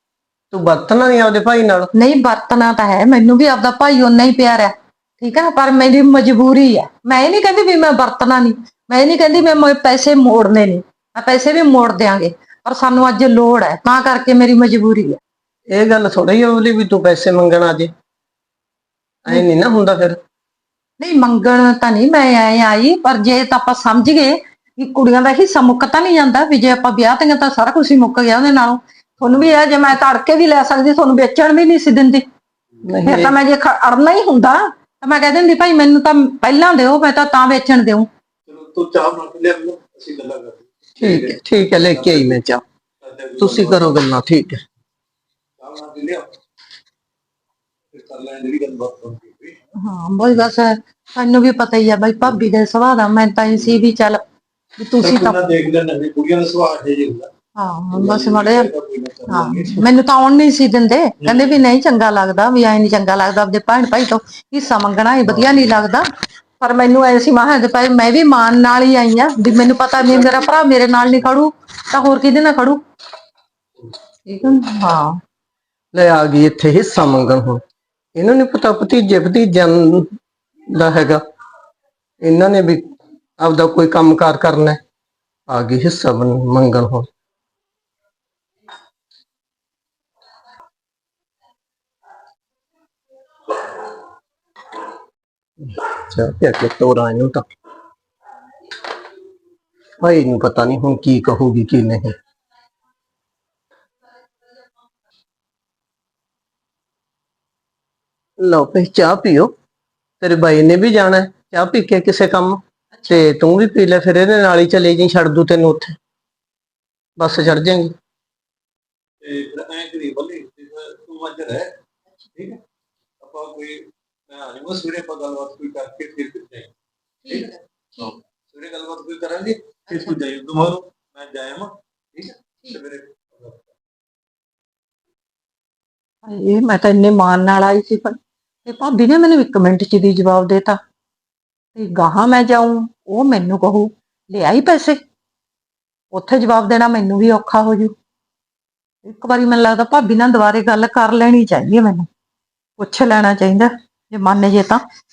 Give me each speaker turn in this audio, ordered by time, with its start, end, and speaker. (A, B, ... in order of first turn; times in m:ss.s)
0:00.5-0:01.9 A
0:01.9-0:15.2 B
0:15.7-0:17.9 A
0:19.2-0:20.2 A
0:21.0-0:32.2 B
0:32.8-0:33.3 A
0:33.0-0:38.1 B
0:38.5-0:42.3 C
0:41.0-0:42.6 A
0:43.0-0:43.9 C
0:43.4-0:44.6 A
0:45.6-0:46.4 C
0:47.9-0:49.6 C
0:49.8-0:54.2 B
0:54.8-0:55.5 B
0:55.0-0:57.3 C
0:57.6-0:58.7 B
0:57.9-0:59.8 C
0:59.3-1:06.0 B
1:01.2-1:01.6 C
1:06.6-1:12.8 B
1:14.3-1:15.2 B
1:15.9-1:17.6 A
1:18.2-1:20.1 A
1:20.7-1:21.2 A
1:22.2-1:24.8 A
1:25.5-1:27.1 A
1:35.6-1:37.5 A
1:40.0-1:42.2 A
1:48.4-1:49.5 A
1:50.2-1:56.0 A
1:53.0-1:53.2 B
1:57.2-1:57.9 A
1:59.2-2:01.8 C
2:03.2-2:06.7 C
2:07.2-2:08.2 B
2:08.5-2:13.6 C
2:09.9-2:10.2 B
2:16.2-2:20.8 B
2:21.8-2:25.0 B
2:26.1-2:27.9 B
2:29.0-2:32.1 B
2:32.8-2:34.8 B